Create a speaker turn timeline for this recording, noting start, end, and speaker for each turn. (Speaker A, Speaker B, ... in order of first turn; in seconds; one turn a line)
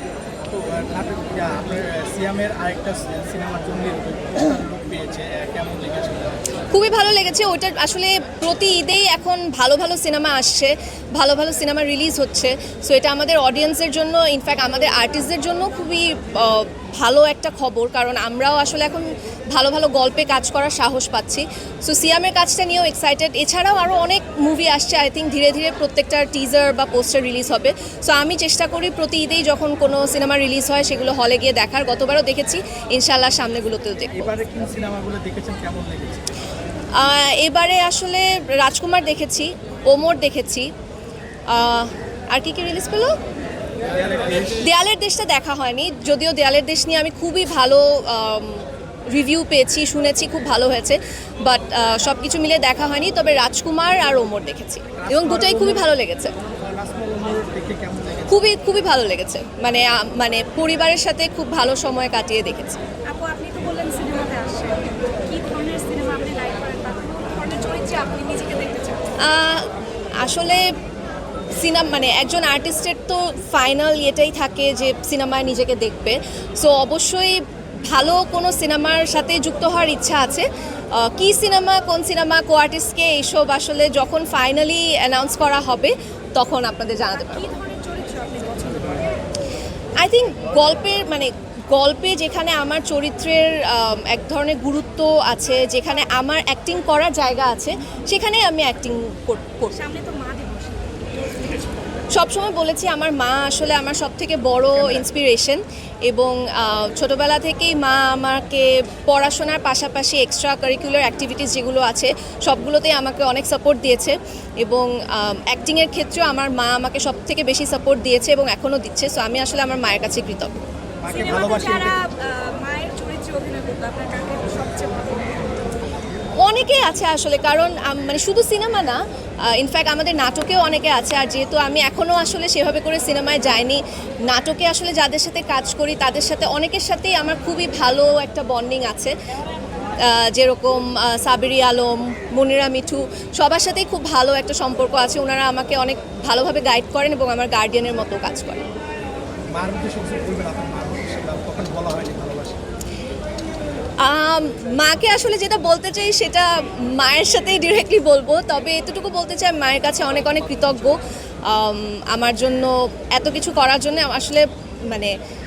Speaker A: 0.5-6.4
Speaker B: 6.7-34.3
Speaker A: 34.1-36.4
Speaker B: 37.0-40.7
Speaker B: 41.5-43.1
Speaker A: 43.9-44.6
Speaker B: 44.4-56.3
Speaker A: 55.0-55.9
Speaker A: 56.6-58.4
Speaker B: 58.3-62.8
Speaker C: 63.0-69.2
Speaker B: 69.2-70.7
Speaker B: 71.5-87.5
Speaker C: 87.1-89.2
Speaker B: 90.0-99.8
Speaker C: 99.7-102.0
Speaker B: 102.1-120.5
Speaker A: 121.0-122.0
Speaker C: 121.1-125.6
Speaker B: 126.4-139.1
Speaker B: 140.0-148.7
Speaker A: 149.5-152.6
Speaker B: 154.0-165.1